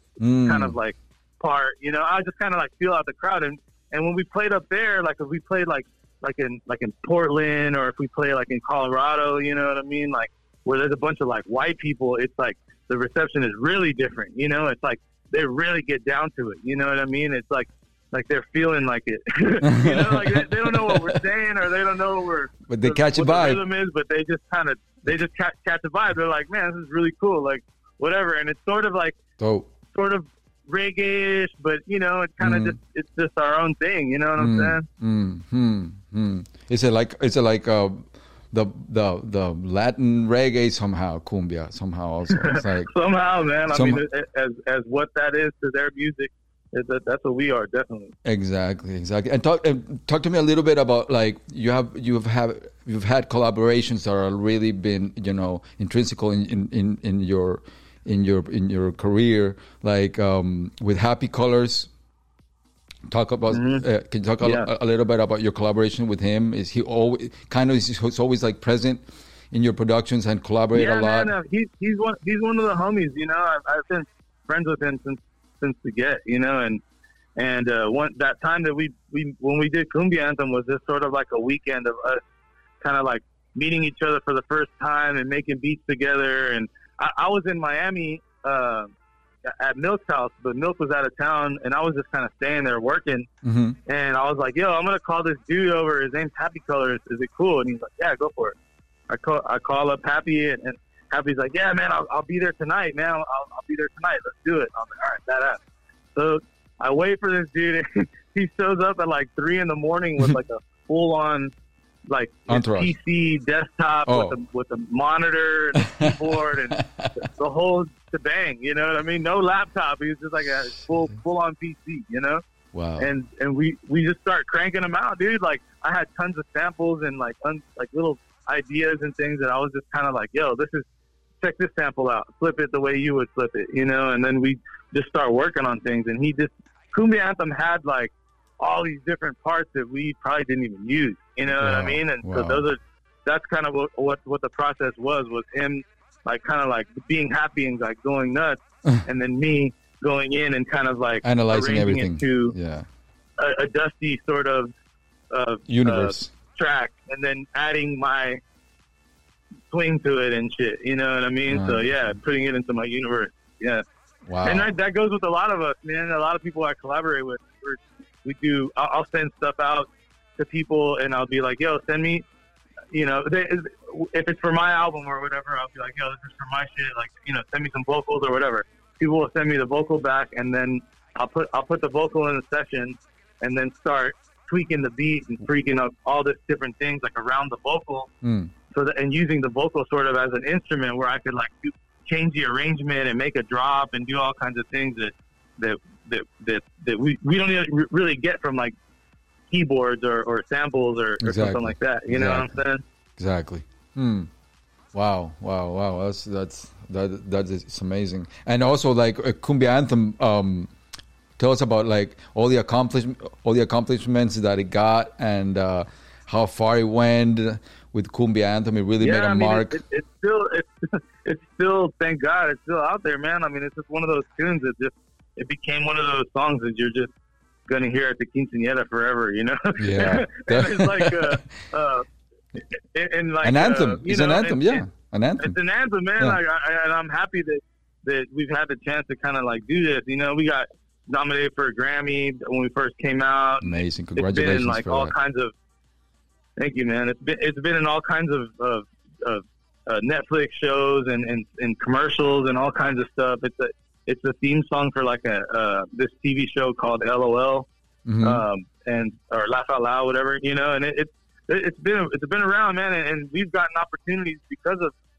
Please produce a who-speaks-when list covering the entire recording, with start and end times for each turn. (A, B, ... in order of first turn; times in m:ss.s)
0:00.2-0:00.8 A
0:00.4-0:29.2 B
0:19.6-0:21.2 A
0:22.7-0:23.6 A
0:29.4-0:29.7 A
0:29.9-0:34.9 B
0:32.4-0:32.8 A
0:34.4-0:42.9 A
0:42.3-0:48.1 B
0:43.7-0:44.0 A
0:48.2-1:01.9 A
1:03.1-1:11.3 A
1:03.5-1:03.8 B
1:04.4-1:04.7 B
1:10.7-1:16.8 B
1:17.4-1:22.2 B
1:22.8-1:28.9 B
1:29.4-1:33.3 B
1:33.4-1:33.8 A
1:33.9-1:38.6 B
1:39.1-1:45.6 B
1:46.1-1:51.5 B
1:52.1-2:02.4 B
1:52.5-1:52.9 A
1:54.1-1:54.4 A
1:55.8-1:57.1 A
2:02.7-2:03.1 A
2:03.0-2:10.9 B
2:11.4-2:32.5 B
2:21.6-2:22.7 A
2:31.2-2:32.9 A
2:33.4-2:34.7 B
2:35.3-2:38.4 B
2:35.7-2:36.3 A
2:39.7-2:43.8 B
2:41.5-2:41.9 A
2:44.2-2:44.7 A
2:44.4-2:52.2 B
2:52.9-3:08.1 B
3:08.2-3:08.5 A
3:08.7-3:18.7 B
3:19.5-3:22.8 B
3:21.2-3:22.5 A
3:23.2-3:24.3 A
3:24.9-3:30.7 A
3:31.4-3:39.8 A
3:39.0-3:47.1 B
3:47.7-3:52.1 B
3:49.8-3:51.4 A
3:52.8-3:54.8 B
3:53.4-3:55.6 A
3:55.4-4:05.5 B
4:03.6-4:05.1 A
4:06.6-4:17.7 B
4:18.1-4:18.4 A
4:18.2-4:24.9 B